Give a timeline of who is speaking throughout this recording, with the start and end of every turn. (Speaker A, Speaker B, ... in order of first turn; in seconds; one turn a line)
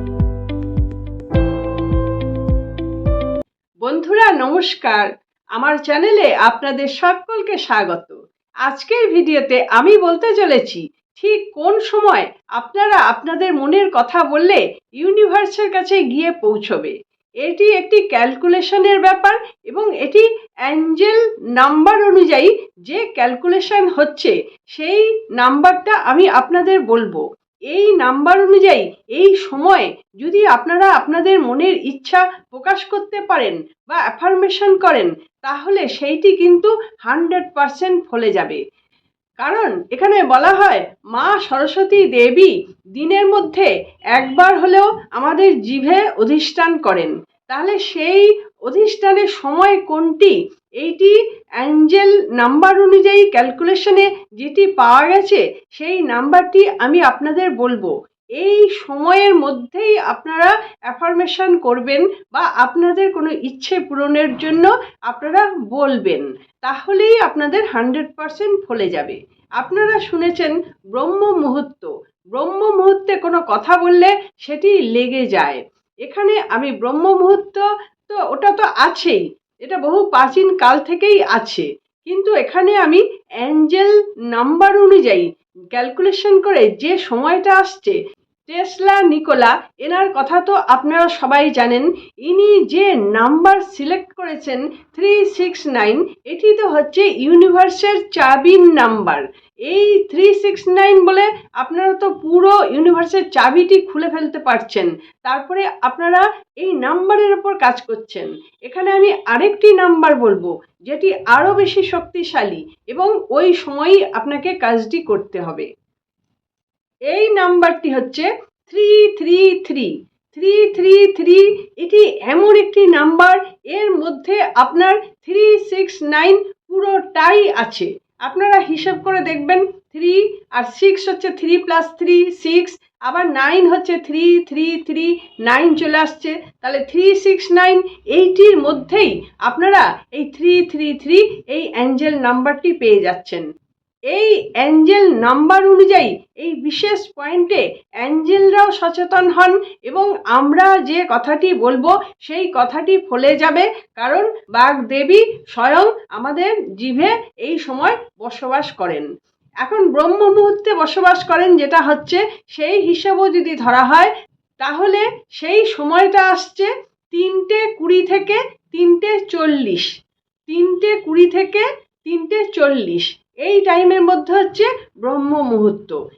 Speaker A: 3.8-38.6
Speaker A: 39.4-115.7
Speaker A: 117.1-143.4
Speaker A: 144.1-159.1
Speaker A: 159.6-169.9
Speaker A: 170.5-176.0